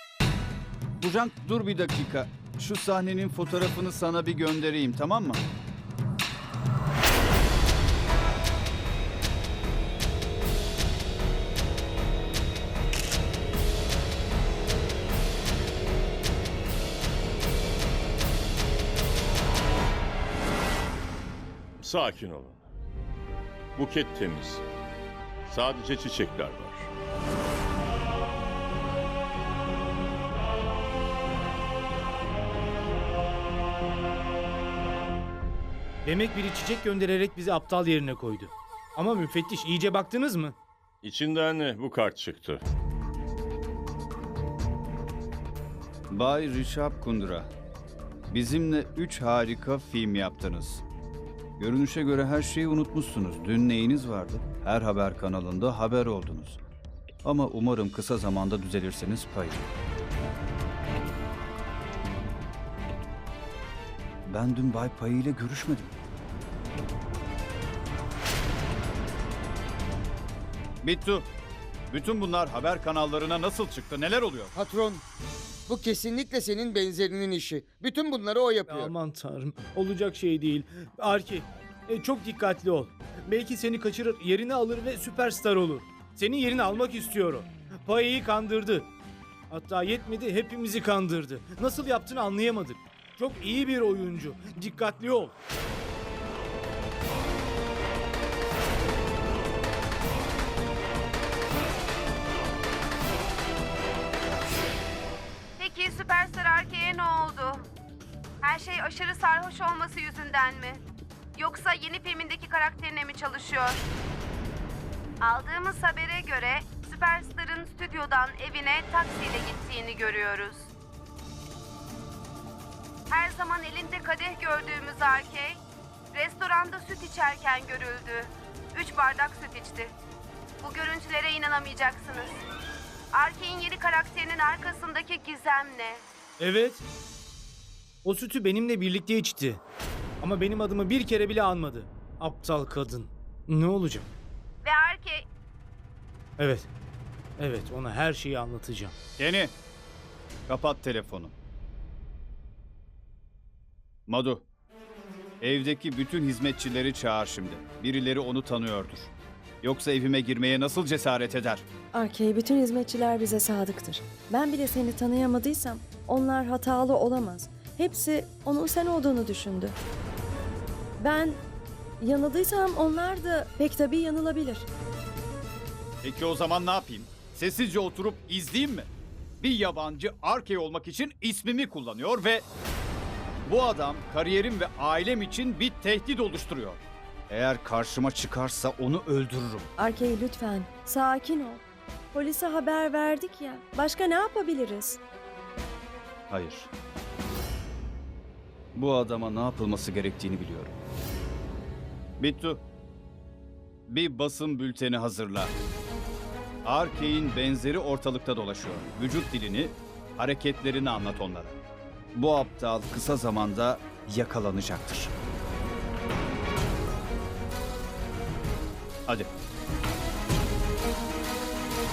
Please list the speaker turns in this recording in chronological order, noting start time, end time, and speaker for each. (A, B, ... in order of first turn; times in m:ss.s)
0:01.0-0:05.4 A
0:21.8-0:22.6 B
0:23.8-0:24.6 B
0:25.4-0:26.9 B
0:36.0-0:40.5 C
0:41.0-0:42.6 B
0:46.1-0:47.5 A
0:48.3-0:50.8 A
0:51.6-0:56.6 A
0:57.2-0:59.7 A
1:04.3-1:05.9 A
1:10.8-1:11.3 A
1:11.9-1:14.5 A
1:14.5-1:15.0 D
1:15.7-1:18.9 D
1:18.7-1:28.9 C
1:29.5-1:35.3 C
1:45.6-1:47.6 E
1:48.4-1:50.8 E
1:51.3-1:53.8 E
1:55.2-2:00.7 E
2:03.1-2:05.6 E
2:06.1-2:09.9 E
2:10.6-2:12.4 E
2:13.1-2:16.0 E
2:16.4-2:16.8 C
2:18.0-2:19.6 C
2:20.2-2:24.1 C
2:24.6-2:25.2 E
2:26.4-2:26.7 C
2:27.4-2:28.9 C
2:29.2-2:29.5 A
2:30.5-2:31.3 A
2:34.1-2:34.4 A
2:35.4-2:41.6 A
2:41.9-2:49.8 F
2:51.0-2:51.4 F
2:52.0-2:54.7 F
2:56.0-2:58.9 A
2:59.4-3:02.4 A
3:03.4-3:09.7 A
3:09.8-3:15.0 F
3:16.3-3:16.7 A
3:18.7-3:20.8 A
3:22.2-3:22.6 A
3:23.9-3:25.5 A
3:26.6-3:31.6 A
3:32.1-3:35.1 A